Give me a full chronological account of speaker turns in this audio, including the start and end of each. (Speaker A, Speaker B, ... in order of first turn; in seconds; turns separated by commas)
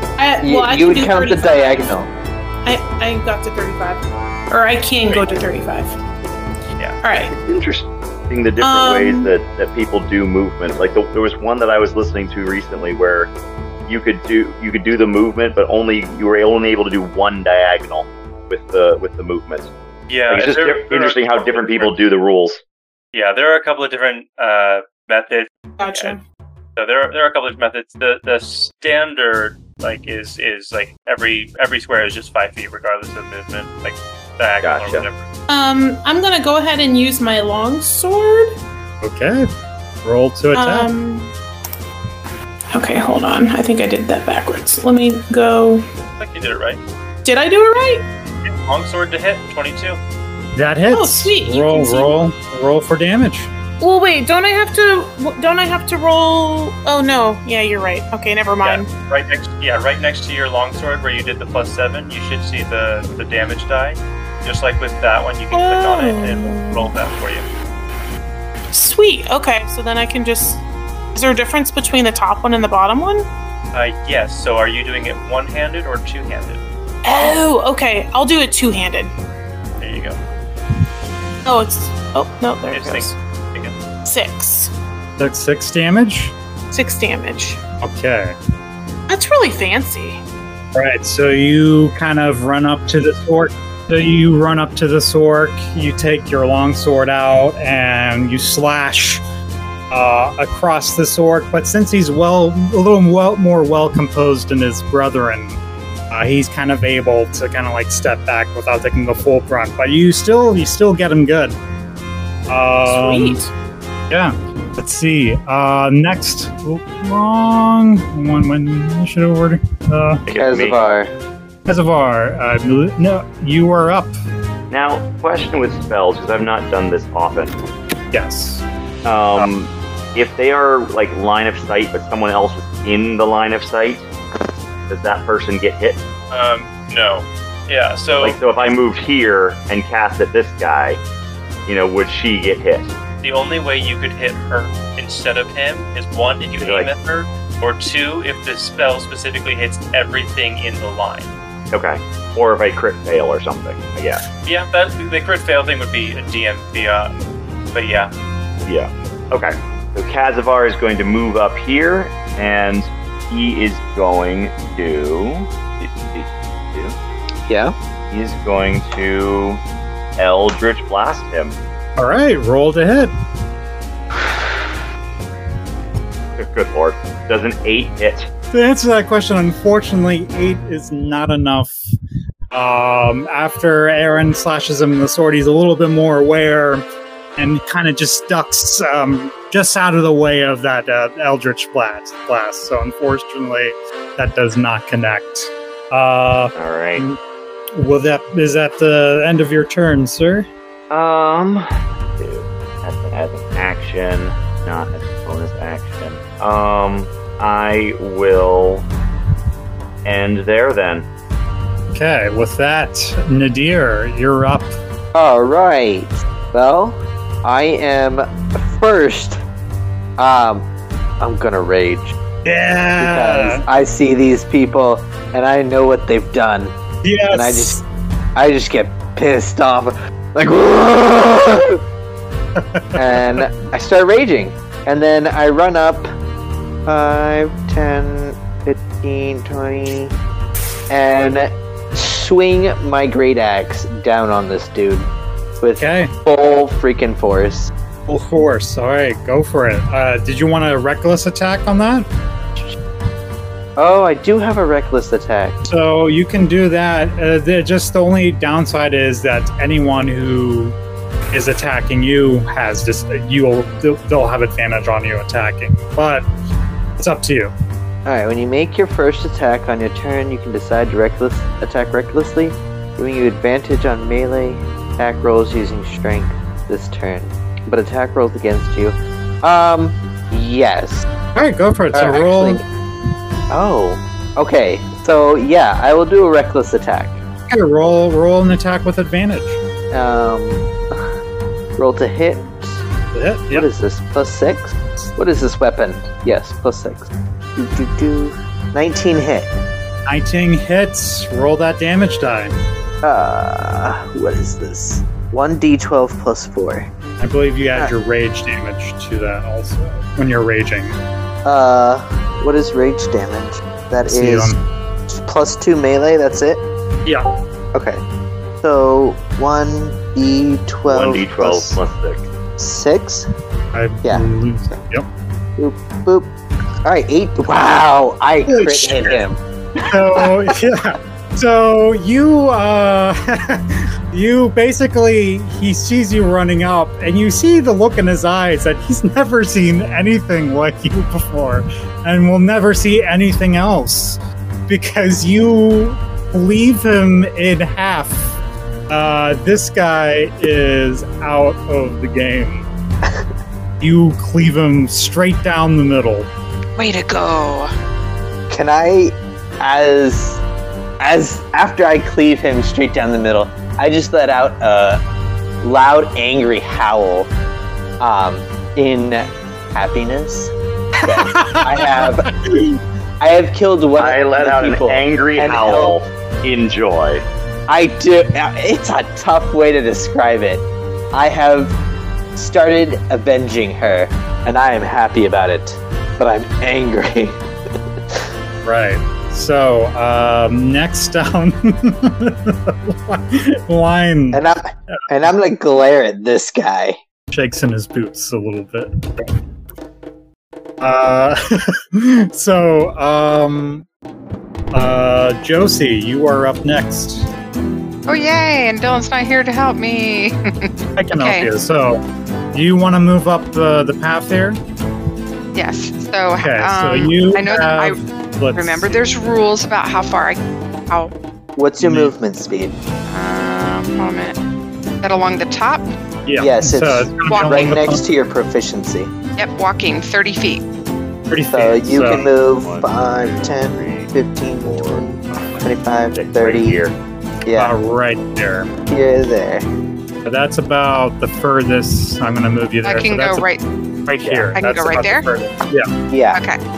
Speaker A: 0.2-2.0, Speaker B: 0.4-2.1, Speaker A: 2.6-6.0, Speaker C: 5.1-5.4, Speaker A: 7.0-7.3, Speaker D: 7.3-13.3, Speaker A: 8.6-9.3, Speaker D: 13.9-19.7, Speaker C: 20.1-21.9, Speaker D: 20.3-22.6, Speaker C: 23.1-26.2, Speaker A: 25.8-26.2, Speaker C: 26.8-35.2, Speaker D: 34.6-35.1, Speaker A: 35.5-38.6, Speaker E: 39.0-39.5, Speaker E: 40.0-40.9, Speaker A: 40.5-41.3, Speaker A: 42.7-45.8, Speaker C: 46.2-46.8, Speaker A: 47.2-48.1, Speaker C: 48.5-50.0, Speaker E: 50.6-53.5, Speaker A: 50.9-52.2, Speaker A: 53.8-58.9, Speaker C: 58.6-67.5, Speaker A: 65.5-66.9, Speaker A: 68.7-70.6, Speaker A: 71.2-73.3, Speaker C: 73.7-76.6, Speaker A: 77.0-79.2, Speaker C: 79.8-80.2, Speaker A: 81.5-83.2, Speaker C: 82.7-83.8, Speaker A: 84.0-84.7, Speaker E: 85.2-86.3, Speaker A: 86.7-87.6, Speaker E: 87.8-88.4, Speaker A: 89.1-90.2, Speaker E: 90.8-99.2, Speaker E: 99.9-105.6, Speaker E: 106.1-111.6, Speaker E: 112.5-113.4, Speaker A: 112.9-113.5, Speaker E: 114.1-120.2, Speaker D: 120.3-120.9, Speaker B: 120.4-121.1, Speaker E: 121.7-124.1, Speaker D: 124.7-127.6, Speaker E: 128.1-128.6, Speaker D: 129.1-134.1, Speaker D: 134.9-136.0, Speaker C: 136.3-138.4, Speaker D: 138.2-141.0, Speaker D: 141.7-142.9, Speaker C: 143.2-151.3, Speaker D: 146.6-146.9, Speaker D: 151.7-154.2, Speaker C: 154.4-158.1, Speaker D: 158.7-167.0, Speaker B: 167.5-167.8, Speaker D: 168.1-169.6, Speaker D: 170.2-171.6, Speaker E: 172.0-173.1, Speaker D: 176.4-178.3, Speaker E: 178.5-181.8, Speaker E: 182.5-186.8, Speaker E: 187.4-197.2, Speaker D: 196.6-197.1, Speaker E: 197.8-200.5, Speaker D: 200.9-208.9, Speaker D: 210.1-211.1, Speaker E: 211.9-214.8, Speaker B: 215.1-219.4, Speaker B: 220.2-220.7, Speaker B: 221.2-222.2, Speaker E: 222.4-223.6, Speaker B: 223.0-226.8, Speaker E: 227.0-227.8, Speaker B: 227.3-227.8, Speaker B: 228.3-231.8, Speaker E: 232.6-233.5, Speaker B: 233.0-236.1, Speaker B: 236.9-240.1, Speaker B: 240.9-247.7, Speaker E: 245.8-246.1, Speaker E: 248.1-252.1, Speaker B: 253.8-255.6, Speaker E: 255.6-260.8, Speaker E: 261.3-266.2, Speaker E: 267.0-267.5, Speaker B: 268.1-281.1, Speaker E: 281.4-282.6, Speaker B: 281.9-282.6, Speaker B: 283.5-287.2, Speaker E: 287.5-289.6, Speaker B: 289.9-291.1, Speaker B: 291.8-292.8, Speaker E: 293.1-293.7, Speaker B: 293.5-299.6, Speaker E: 300.1-302.5, Speaker B: 303.0-306.9, Speaker E: 307.2-311.0, Speaker B: 311.4-314.6, Speaker E: 314.1-314.6, Speaker B: 315.1-316.6, Speaker B: 317.7-318.0, Speaker B: 318.6-321.8, Speaker D: 320.9-322.2, Speaker B: 322.6-323.3, Speaker E: 323.7-325.1, Speaker B: 325.6-326.3, Speaker B: 326.9-329.4, Speaker E: 328.5-329.2, Speaker E: 329.8-348.4, Speaker B: 330.1-330.4, Speaker E: 348.9-352.7, Speaker E: 353.8-356.3, Speaker F: 356.8-357.7, Speaker B: 358.5-360.4, Speaker B: 361.0-365.0, Speaker B: 365.6-367.3, Speaker B: 368.0-372.3, Speaker E: 371.1-372.8, Speaker B: 373.2-376.0, Speaker D: 374.0-377.3, Speaker B: 377.7-381.8, Speaker B: 382.4-387.4, Speaker E: 388.6-394.4, Speaker B: 394.3-397.0, Speaker E: 397.3-399.3, Speaker E: 400.8-403.9, Speaker E: 404.7-407.3, Speaker F: 408.1-411.5, Speaker E: 411.0-414.6, Speaker F: 415.5-418.0, Speaker E: 416.4-419.0, Speaker F: 418.6-421.1, Speaker B: 421.6-422.8, Speaker E: 421.8-422.1, Speaker F: 423.1-424.4, Speaker F: 425.0-425.9, Speaker E: 426.3-428.0, Speaker B: 426.4-429.1, Speaker F: 427.3-427.8, Speaker F: 429.4-430.6, Speaker E: 431.3-432.3, Speaker B: 431.5-436.8, Speaker D: 432.1-437.0, Speaker B: 437.5-437.8, Speaker E: 437.6-438.7, Speaker B: 438.9-439.7, Speaker E: 440.3-443.5, Speaker F: 442.8-443.6, Speaker E: 444.1-445.9, Speaker D: 444.2-444.5, Speaker F: 444.6-445.2, Speaker B: 446.1-446.4, Speaker F: 446.3-446.6